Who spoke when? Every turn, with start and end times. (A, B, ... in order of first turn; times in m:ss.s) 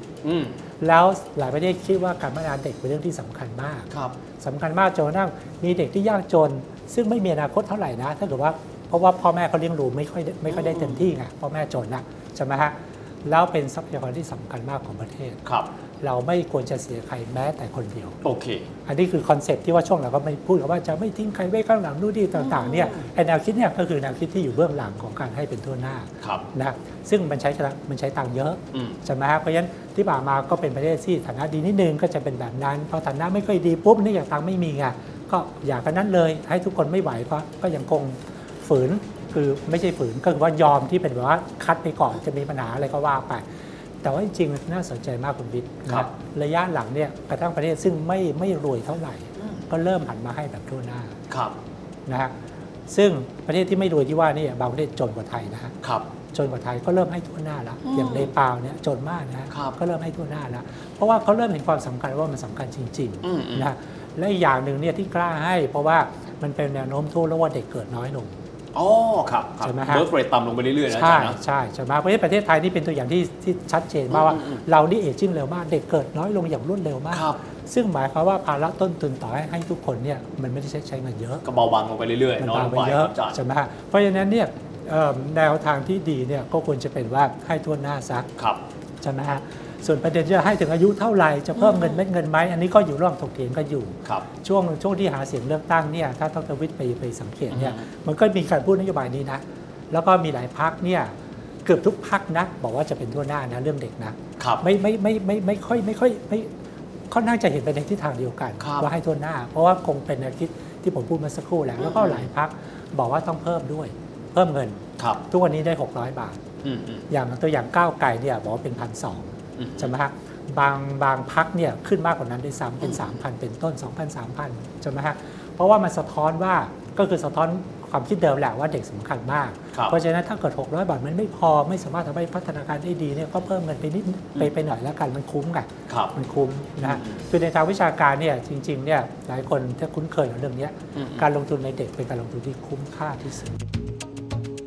0:00.2-0:00.6 A
0:00.8-0:15.4 B
0:03.9-0:04.2 A
0:10.5-0:11.0 A
0:16.0-0:18.2 B
0:18.2-0:18.6 A
0:18.8-0:43.4 B
0:22.3-0:23.1 A
0:28.7-0:29.0 A
0:44.0-0:51.2 B
0:49.4-0:49.6 A
0:51.3-0:51.6 A
0:52.1-0:52.3 B
0:52.9-0:55.7 B
0:55.8-0:56.1 A
0:56.3-1:08.4 B
0:57.8-0:58.3 A
1:03.2-1:03.7 A
1:08.7-1:11.4 A
1:09.6-1:10.1 B
1:10.9-1:21.4 B
1:14.1-1:14.6 A
1:17.1-1:17.4 A
1:21.4-1:23.4 A
1:22.4-1:28.3 B
1:28.4-1:28.6 A
1:29.0-1:41.1 B
1:31.6-1:32.0 A
1:37.5-1:37.8 A
1:41.6-1:46.5 B
1:44.4-1:44.6 A
1:47.1-1:56.4 B
1:48.6-1:48.9 A
1:51.8-1:52.3 A
1:56.6-1:57.0 A
1:57.1-2:23.5 B
1:59.6-1:59.9 A
2:02.8-2:03.1 A
2:15.9-2:16.1 A
2:16.8-2:17.2 A
2:20.9-2:21.2 A